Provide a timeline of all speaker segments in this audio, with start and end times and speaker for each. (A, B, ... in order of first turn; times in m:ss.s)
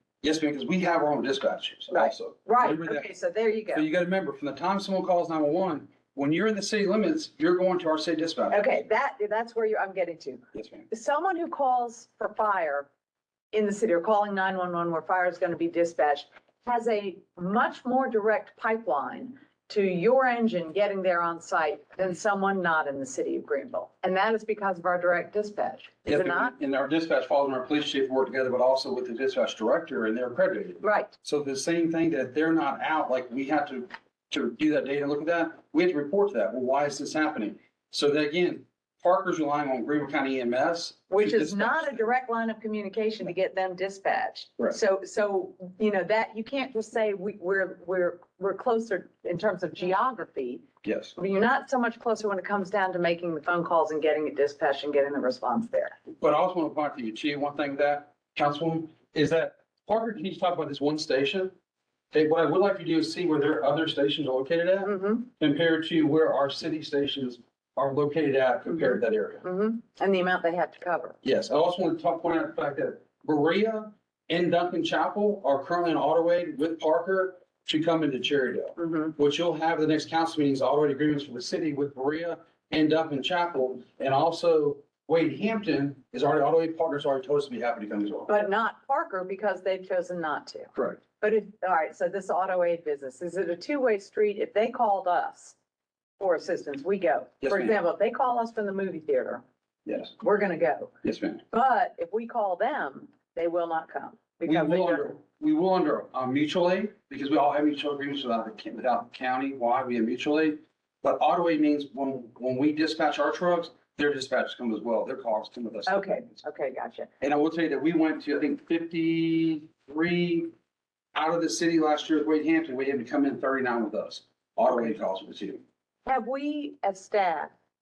0:00.2-0:03.0 A
0:01.9-0:03.8 B
0:03.7-0:08.7 A
0:08.5-0:12.9 B
0:10.5-0:10.8 A
0:13.5-0:26.5 B
0:26.1-0:41.9 A
0:30.8-0:31.1 B
0:41.1-0:50.6 B
0:50.8-0:51.1 A
0:51.2-0:56.0 B
0:56.2-1:01.5 A
1:02.1-1:04.8 A
1:04.8-1:05.3 B
1:05.4-1:09.4 A
1:08.7-1:11.2 B
1:11.2-1:28.3 A
1:18.8-1:19.1 B
1:28.3-1:35.6 B
1:36.2-1:39.4 B
1:37.4-1:37.7 A
1:39.9-1:40.1 A
1:40.2-1:40.9 B
1:41.0-1:41.4 A
1:41.5-1:45.1 B
1:44.6-1:56.1 A
1:55.8-1:57.1 B
1:57.2-2:00.5 A
2:01.2-2:05.6 A
2:06.0-2:07.5 B